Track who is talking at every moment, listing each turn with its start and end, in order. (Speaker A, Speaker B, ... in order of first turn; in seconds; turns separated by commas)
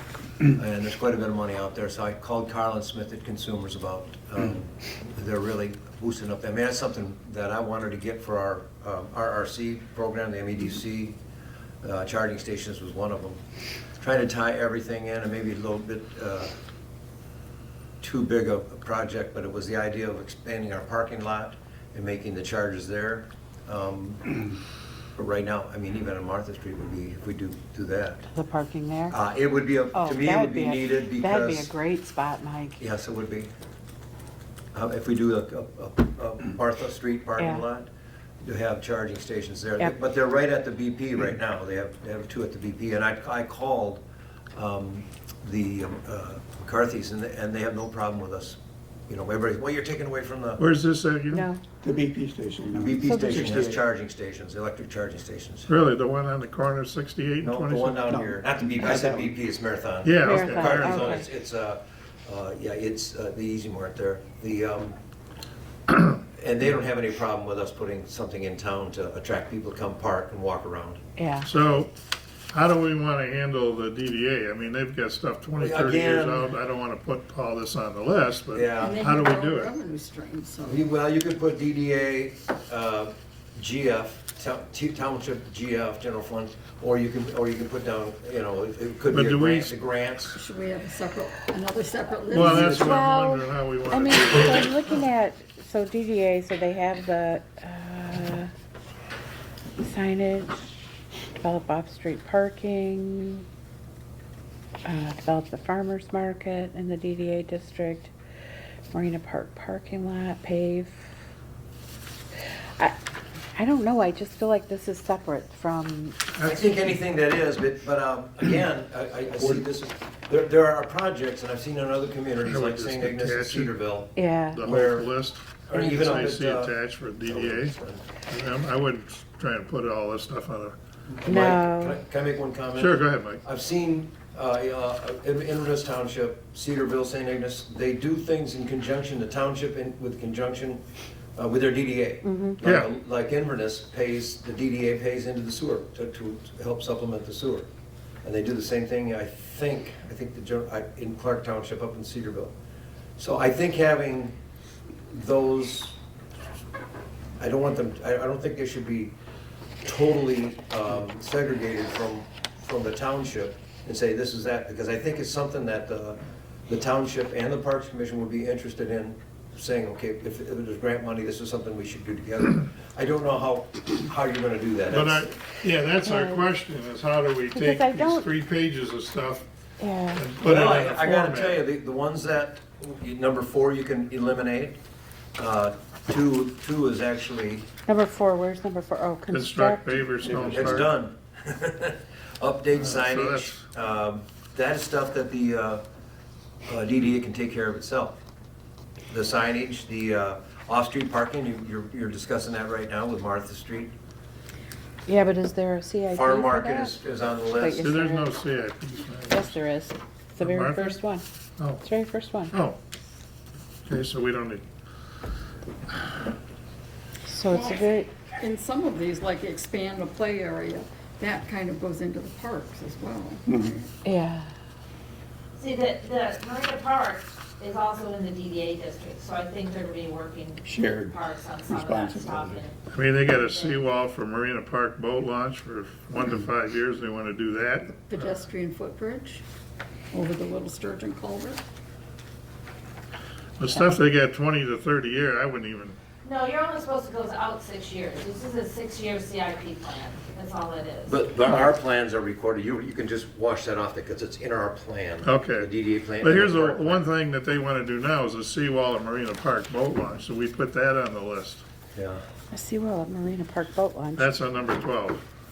Speaker A: 0.5-11.2, Speaker A: 11.8-13.4, Speaker A: 14.0-16.5, Speaker A: 18.0-24.3, Speaker A: 25.1-28.3, Speaker B: 28.3-29.2, Speaker A: 29.1-31.7, Speaker B: 29.9-32.8, Speaker A: 32.8-33.5, Speaker A: 34.7-37.9, Speaker B: 37.4-37.6, Speaker A: 38.4-44.0, Speaker A: 44.5-50.6, Speaker C: 50.6-51.5, Speaker B: 51.3-51.6, Speaker D: 51.8-53.8, Speaker A: 52.7-55.7, Speaker B: 53.0-53.6, Speaker C: 55.7-58.1, Speaker A: 57.4-65.0, Speaker D: 58.9-59.2, Speaker C: 60.0-61.1, Speaker B: 60.2-61.2, Speaker A: 66.1-71.0, Speaker B: 71.2-71.5, Speaker C: 71.4-71.9, Speaker C: 72.5-79.7, Speaker A: 75.6-76.5, Speaker A: 78.5-79.0, Speaker E: 78.7-80.8, Speaker A: 80.6-90.4, Speaker C: 89.1-89.7, Speaker E: 90.3-93.0, Speaker C: 92.3-94.8, Speaker B: 92.3-98.5, Speaker B: 99.8-100.6, Speaker B: 101.4-103.5, Speaker B: 104.8-108.1, Speaker B: 108.9-111.0, Speaker B: 113.5-116.2, Speaker A: 116.4-125.1, Speaker C: 122.4-123.7, Speaker B: 124.2-124.6, Speaker C: 124.5-127.7, Speaker A: 125.7-126.7, Speaker A: 127.2-128.0, Speaker C: 128.3-130.8, Speaker A: 131.2-140.8, Speaker B: 131.2-132.0, Speaker C: 132.7-133.4, Speaker A: 141.3-147.7, Speaker B: 142.2-142.6, Speaker A: 148.2-152.5, Speaker A: 153.2-154.3, Speaker A: 155.1-156.0, Speaker A: 157.4-159.1, Speaker A: 159.8-175.3, Speaker C: 174.9-179.5, Speaker B: 176.0-176.5, Speaker B: 177.5-178.2, Speaker B: 179.8-180.2, Speaker C: 180.1-181.6, Speaker A: 180.4-184.8, Speaker A: 185.3-187.7, Speaker B: 187.9-190.2, Speaker C: 189.3-190.9, Speaker A: 190.2-195.8, Speaker C: 192.7-193.6, Speaker A: 196.7-198.2, Speaker A: 199.1-203.9, Speaker B: 205.1-207.0, Speaker A: 206.1-208.0, Speaker B: 207.5-208.3, Speaker C: 207.8-209.6, Speaker B: 209.3-211.2, Speaker C: 210.4-211.0, Speaker C: 211.6-211.8, Speaker B: 211.8-212.5, Speaker C: 212.5-212.8, Speaker C: 213.9-214.6, Speaker B: 217.2-218.1, Speaker E: 218.4-223.8, Speaker B: 224.0-224.5, Speaker F: 225.6-233.8, Speaker D: 230.8-231.1, Speaker D: 231.7-232.6, Speaker C: 232.9-237.9, Speaker E: 237.9-239.4, Speaker E: 240.1-241.6, Speaker C: 243.6-246.0, Speaker F: 246.2-251.2, Speaker A: 251.1-257.0, Speaker C: 255.2-255.7, Speaker C: 256.2-261.6, Speaker A: 261.9-262.2, Speaker B: 262.5-264.3, Speaker C: 264.2-265.2